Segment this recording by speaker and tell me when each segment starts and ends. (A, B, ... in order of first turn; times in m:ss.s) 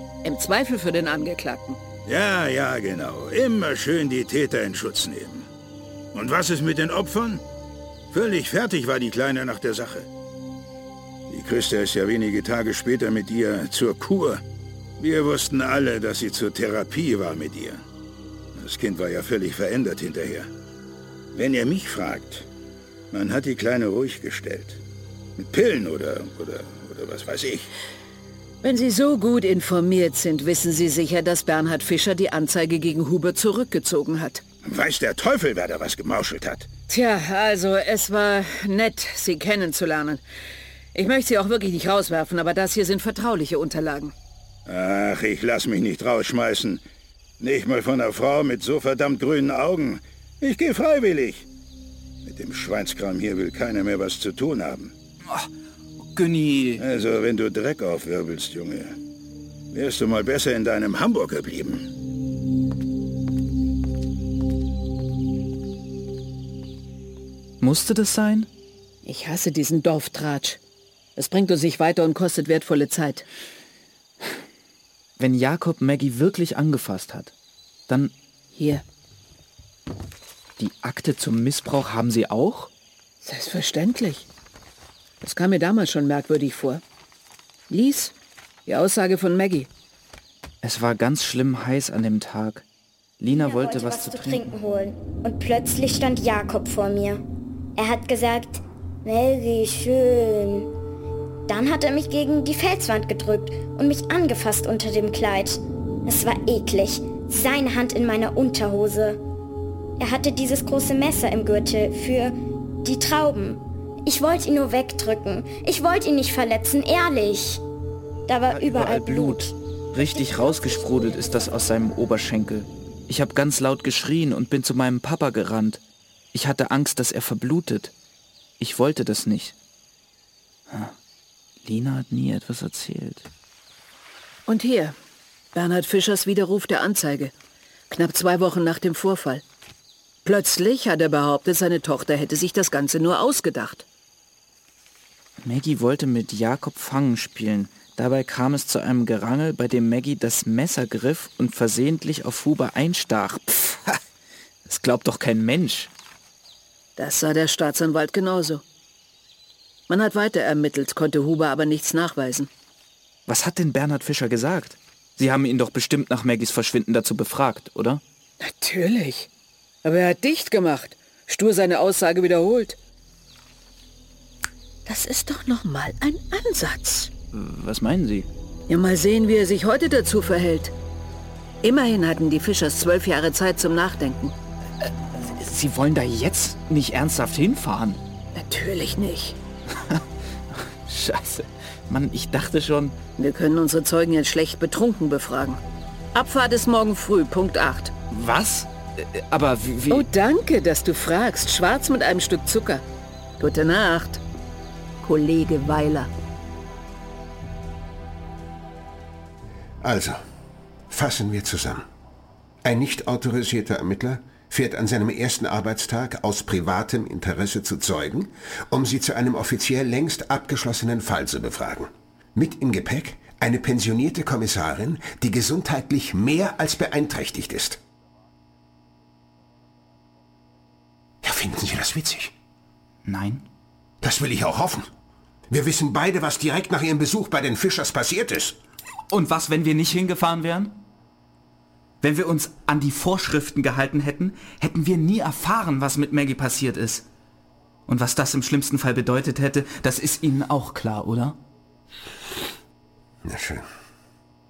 0:00.2-0:01.8 A
0:02.1-0:05.5 B
0:06.1-0:07.4 B
0:08.1-0:10.1 B
0:11.3-0:14.4 B
0:15.0-0:17.8 B
0:18.6-0:20.5 B
0:21.4-0:22.5 B
0:23.1-0:24.8 B
0:25.4-0:27.7 B
0:28.6-0:34.4 A
0:34.6-0:36.7 B
0:36.9-0:40.2 A
0:40.9-0:44.2 A
0:44.7-0:46.8 B
0:47.4-0:51.5 B
0:52.2-0:54.9 B
0:56.1-0:56.8 C
0:56.8-0:59.0 B
0:59.7-1:01.9 B
1:07.6-1:08.5 C
1:09.0-1:10.6 A
1:11.2-1:13.2 A
1:15.2-1:17.3 C
1:17.9-1:18.1 C
1:18.5-1:18.8 A
1:20.6-1:22.7 C
1:23.2-1:24.3 A
1:25.2-1:26.8 A
1:27.7-1:28.1 A
1:28.7-1:29.7 A
1:30.6-1:32.6 C
1:33.2-1:34.4 C
1:33.3-1:37.2 D
1:37.8-1:40.7 D
1:41.5-1:49.2 D
1:50.0-1:57.6 D
1:58.3-2:01.5 D
1:58.5-2:05.8 C
2:06.3-2:07.9 C
2:08.6-2:09.5 C
2:10.7-2:10.9 C
2:11.6-2:13.3 C
2:14.5-2:15.0 A
2:15.5-2:17.3 A
2:17.9-2:19.4 A
2:20.2-2:23.8 A
2:25.4-2:34.0 C
2:34.7-2:35.9 C
2:37.0-2:38.6 A
2:39.9-2:42.5 A
2:43.3-2:48.0 C
2:48.4-2:49.3 A
2:49.8-2:52.8 A
2:54.9-2:57.1 A
2:57.3-2:58.3 C
2:58.7-3:00.7 A
3:01.6-3:04.3 A
3:04.8-3:08.0 C
3:08.4-3:09.4 A
3:09.8-3:10.0 C
3:10.5-3:13.0 C
3:13.2-3:15.6 A
3:16.1-3:17.9 A
3:18.1-3:20.1 C
3:19.9-3:22.8 A
3:23.4-3:24.2 A
3:25.0-3:26.1 A
3:29.8-3:30.2 E
3:30.9-3:31.9 E
3:32.6-3:47.8 E
3:51.2-3:52.3 E
3:53.0-3:53.5 C
3:54.0-3:54.9 E
3:55.5-3:58.6 E
3:59.1-4:00.8 C
4:02.0-4:07.1 C
4:07.9-4:11.4 C
4:13.2-4:13.6 E